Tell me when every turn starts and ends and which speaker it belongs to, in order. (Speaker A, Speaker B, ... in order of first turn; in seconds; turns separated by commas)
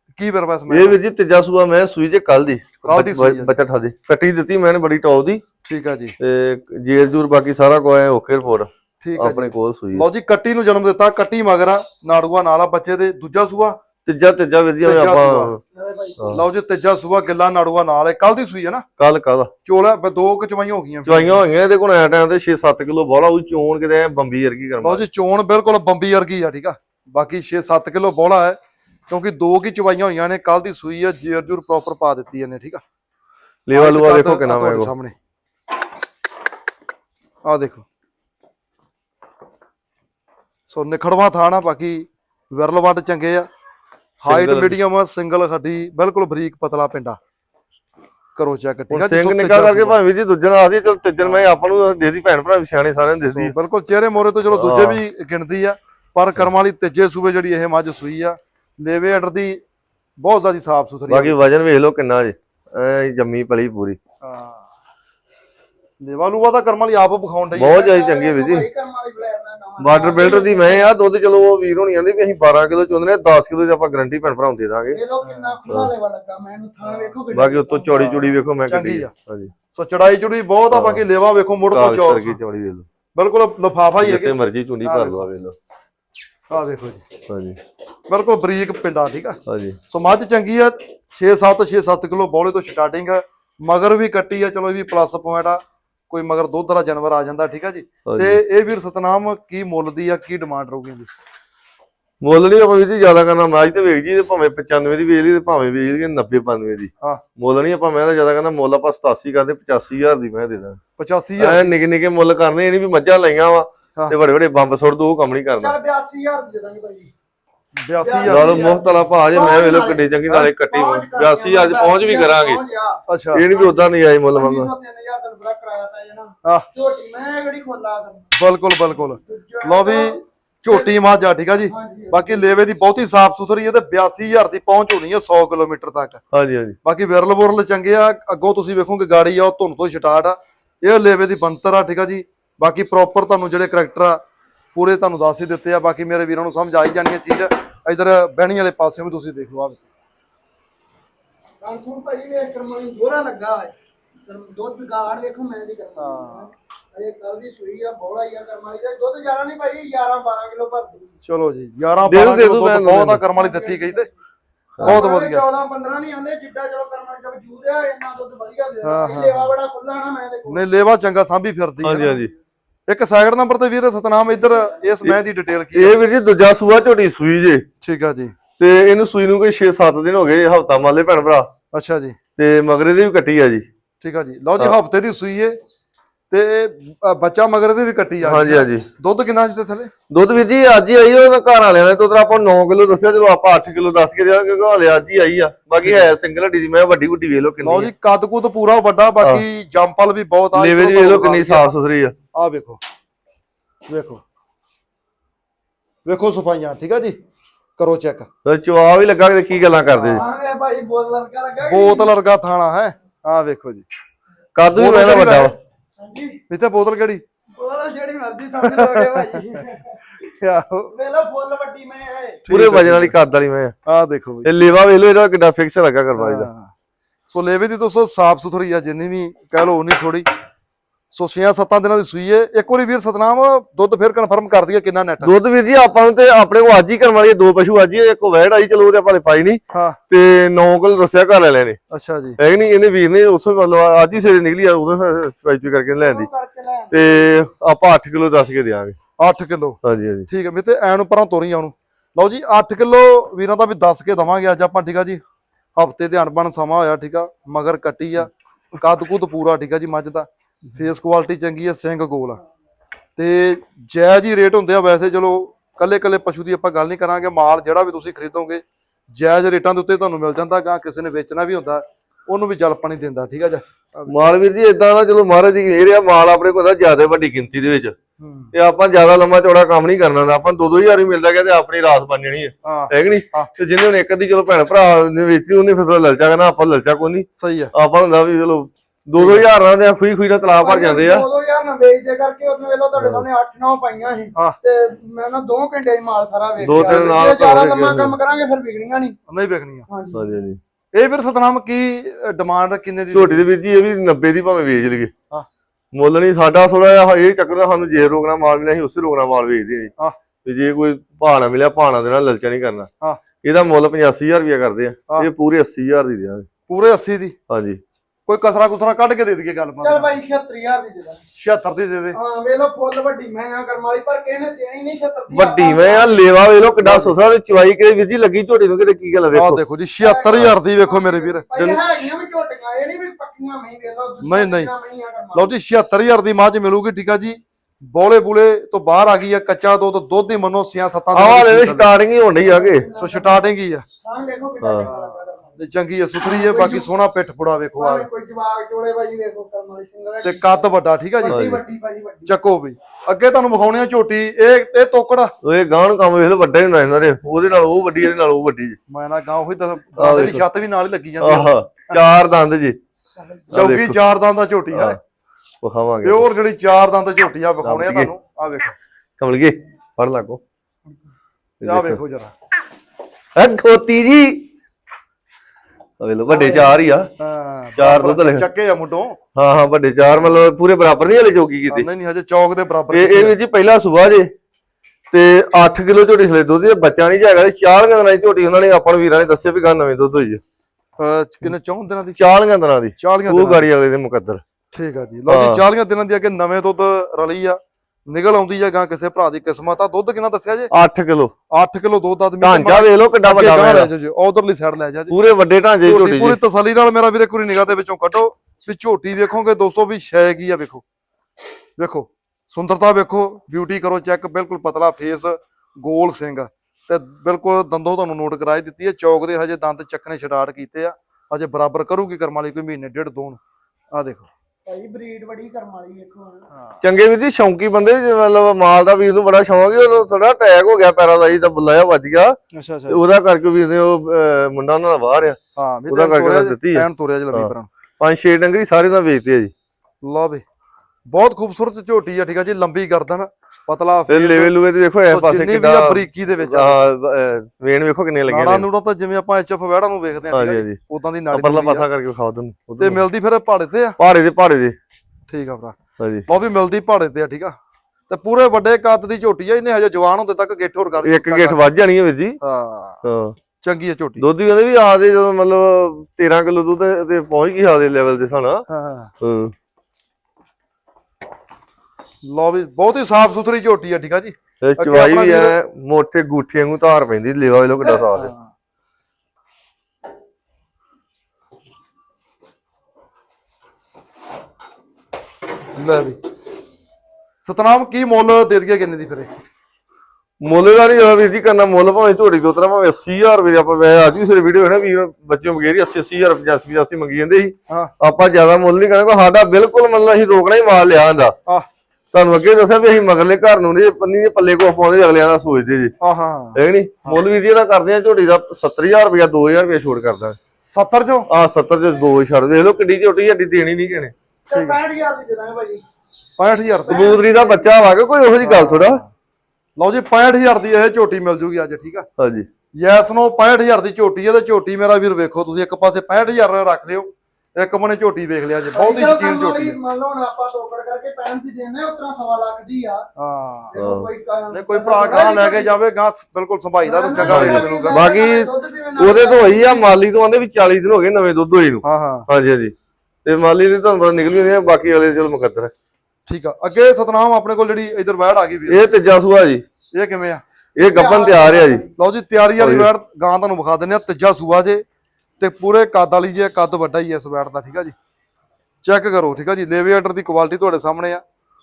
Speaker A: 0.1-0.9, Speaker B: 0.7-5.4, Speaker A: 2.8-3.5, Speaker A: 5.6-6.1, Speaker B: 6.2-10.1, Speaker A: 9.0-13.8, Speaker B: 14.0-15.6, Speaker A: 14.8-15.6, Speaker C: 15.7-16.3, Speaker A: 16.3-18.8, Speaker B: 19.0-19.5, Speaker A: 19.6-21.4, Speaker B: 21.1-25.0, Speaker A: 24.8-28.6, Speaker A: 29.1-32.8, Speaker B: 33.7-34.9, Speaker A: 33.7-35.1, Speaker A: 37.4-37.8, Speaker A: 40.7-43.5, Speaker B: 44.2-44.8, Speaker A: 44.2-47.2, Speaker A: 48.4-50.0, Speaker B: 48.9-53.5, Speaker A: 53.3-59.6, Speaker B: 54.5-55.0, Speaker A: 60.2-61.4, Speaker B: 61.1-64.0, Speaker A: 64.2-64.7, Speaker A: 66.0-67.8, Speaker B: 67.5-68.7, Speaker C: 67.7-70.9, Speaker B: 69.8-75.0, Speaker C: 74.9-78.2, Speaker A: 75.2-75.5, Speaker B: 75.7-75.9, Speaker A: 76.8-77.2, Speaker B: 77.3-79.5, Speaker A: 77.9-79.1, Speaker A: 79.7-82.4, Speaker B: 80.7-81.0, Speaker B: 81.7-82.8, Speaker A: 83.1-85.3, Speaker B: 84.0-85.5, Speaker A: 86.5-87.0, Speaker B: 87.3-87.6, Speaker A: 88.1-89.4, Speaker B: 89.5-89.8, Speaker A: 89.9-101.1, Speaker B: 98.0-98.4, Speaker B: 102.2-110.8, Speaker A: 111.0-111.7, Speaker B: 111.4-115.8, Speaker C: 115.6-117.1, Speaker A: 117.8-118.7, Speaker C: 118.0-128.3, Speaker B: 118.2-122.6, Speaker A: 123.1-123.4, Speaker B: 123.3-124.7, Speaker A: 128.4-136.2, Speaker C: 129.1-130.9, Speaker C: 131.7-132.4, Speaker B: 136.3-136.8, Speaker A: 136.8-144.2, Speaker A: 144.7-149.8, Speaker C: 151.6-153.7, Speaker C: 154.2-161.1, Speaker A: 156.0-156.5, Speaker A: 161.2-164.1, Speaker B: 162.1-163.2, Speaker C: 163.3-164.1, Speaker B: 164.8-165.0, Speaker C: 164.8-170.6, Speaker A: 164.8-165.4, Speaker A: 168.8-169.5, Speaker A: 170.5-172.2, Speaker B: 171.8-172.3, Speaker A: 172.9-176.0, Speaker B: 175.7-177.6, Speaker A: 177.8-178.3, Speaker B: 178.6-181.5, Speaker A: 181.7-182.2, Speaker B: 182.4-183.7, Speaker A: 184.0-185.6, Speaker A: 186.3-189.9, Speaker B: 188.2-188.9, Speaker B: 190.1-197.9, Speaker A: 195.8-196.1, Speaker A: 197.6-201.7, Speaker B: 200.5-202.1, Speaker A: 202.3-202.8, Speaker A: 203.9-204.2, Speaker A: 206.1-207.2, Speaker A: 207.8-208.3, Speaker B: 208.4-210.2, Speaker A: 209.9-210.2, Speaker C: 210.1-212.1, Speaker A: 211.7-213.8, Speaker B: 214.5-215.5, Speaker A: 214.7-215.5, Speaker C: 216.0-216.4, Speaker A: 216.5-217.2, Speaker C: 217.6-220.0, Speaker A: 218.6-219.6, Speaker A: 220.2-220.9, Speaker C: 220.9-222.4, Speaker A: 222.4-223.1, Speaker B: 222.5-223.7, Speaker A: 223.8-224.5, Speaker B: 224.4-226.5, Speaker A: 226.2-226.7, Speaker A: 227.3-230.3, Speaker A: 231.1-235.3, Speaker B: 235.2-241.8, Speaker A: 239.7-240.0, Speaker A: 241.9-242.4, Speaker B: 242.4-246.3, Speaker C: 246.0-247.3, Speaker B: 246.9-249.0, Speaker A: 249.2-255.2, Speaker B: 249.8-250.3, Speaker A: 255.8-262.4, Speaker A: 263.2-274.1, Speaker B: 274.1-277.9, Speaker A: 278.2-278.5, Speaker B: 278.5-291.2, Speaker A: 282.6-283.5, Speaker A: 287.4-287.7, Speaker A: 289.2-289.4, Speaker C: 290.6-299.2, Speaker B: 292.9-293.2, Speaker B: 296.6-298.1, Speaker A: 296.8-297.2, Speaker A: 299.3-299.9, Speaker C: 299.9-300.3, Speaker B: 300.1-300.6, Speaker A: 300.9-303.4, Speaker B: 303.1-305.1, Speaker B: 305.9-309.9, Speaker B: 310.4-312.9, Speaker B: 313.4-316.5, Speaker A: 316.7-317.4, Speaker B: 317.5-317.8, Speaker A: 318.3-320.1, Speaker C: 319.8-321.3, Speaker A: 321.3-322.2, Speaker C: 322.1-326.2, Speaker B: 325.3-329.6, Speaker A: 326.8-327.1, Speaker A: 329.3-331.4, Speaker C: 330.0-335.5, Speaker A: 334.2-334.7, Speaker A: 335.3-341.9, Speaker B: 341.1-342.9, Speaker C: 342.3-343.5, Speaker A: 343.0-343.8, Speaker C: 344.0-345.6, Speaker B: 344.6-344.9, Speaker A: 344.8-348.1, Speaker C: 346.2-346.9, Speaker C: 347.8-352.3, Speaker A: 350.2-351.4, Speaker B: 351.3-351.6, Speaker A: 352.2-355.3, Speaker B: 355.4-358.8, Speaker A: 358.9-362.1, Speaker B: 360.0-360.4, Speaker B: 361.2-362.8, Speaker A: 363.5-365.0, Speaker B: 363.5-364.0, Speaker B: 364.7-365.0, Speaker B: 365.6-366.3, Speaker A: 366.0-368.7, Speaker B: 367.6-368.1, Speaker B: 369.2-370.4, Speaker B: 371.6-372.0, Speaker A: 371.6-372.3, Speaker B: 373.3-374.4, Speaker B: 376.0-377.1, Speaker C: 376.4-376.6, Speaker A: 377.2-379.2, Speaker B: 377.8-378.4, Speaker B: 379.3-381.9, Speaker A: 381.7-383.3, Speaker B: 382.9-384.3, Speaker B: 385.1-390.4, Speaker A: 391.0-392.2, Speaker B: 392.2-394.4, Speaker A: 393.0-393.6, Speaker A: 394.7-400.7, Speaker B: 395.3-395.6, Speaker B: 400.7-401.3, Speaker A: 401.5-405.1, Speaker B: 402.4-403.9, Speaker B: 405.1-406.4, Speaker A: 405.8-410.8, Speaker A: 411.8-423.4, Speaker A: 423.9-424.3, Speaker C: 424.6-426.5, Speaker A: 426.5-426.8, Speaker B: 426.8-435.4, Speaker A: 432.5-433.0, Speaker A: 435.6-437.7, Speaker B: 435.9-439.5, Speaker A: 440.0-440.4, Speaker A: 441.1-444.5, Speaker B: 444.1-448.7, Speaker A: 445.1-446.8, Speaker A: 448.3-451.9, Speaker B: 450.3-450.8, Speaker B: 451.3-453.0, Speaker A: 452.8-453.9, Speaker B: 454.0-454.7, Speaker A: 455.3-455.8, Speaker B: 456.0-456.3, Speaker A: 456.3-457.5, Speaker A: 458.1-461.6, Speaker B: 461.0-462.4, Speaker A: 462.4-463.0, Speaker B: 463.0-463.4, Speaker A: 463.6-464.2, Speaker B: 464.2-468.6, Speaker A: 468.7-469.1, Speaker B: 469.2-469.5, Speaker A: 472.2-475.6, Speaker B: 474.6-478.3, Speaker A: 477.8-478.5, Speaker A: 485.8-486.2, Speaker A: 487.4-489.3, Speaker B: 490.4-501.3, Speaker B: 502.1-505.9, Speaker A: 506.0-507.2, Speaker B: 506.5-510.4, Speaker A: 510.6-511.3, Speaker B: 511.3-514.1, Speaker C: 514.5-515.8, Speaker A: 516.4-517.2, Speaker C: 516.9-517.7, Speaker B: 516.9-519.0, Speaker A: 518.4-519.1, Speaker A: 519.8-522.1, Speaker B: 522.2-522.5, Speaker A: 522.8-529.8, Speaker C: 528.7-533.0, Speaker A: 533.2-533.7, Speaker C: 533.7-535.7, Speaker B: 533.8-534.1, Speaker A: 534.5-538.0, Speaker C: 536.8-539.9, Speaker B: 537.2-542.7, Speaker A: 541.8-542.3, Speaker B: 543.2-545.7, Speaker A: 546.3-548.8, Speaker B: 548.7-549.6, Speaker A: 549.9-550.4, Speaker B: 550.8-551.8, Speaker C: 550.9-551.9, Speaker A: 552.0-554.8, Speaker B: 552.6-552.9, Speaker A: 555.4-557.9, Speaker A: 558.8-561.2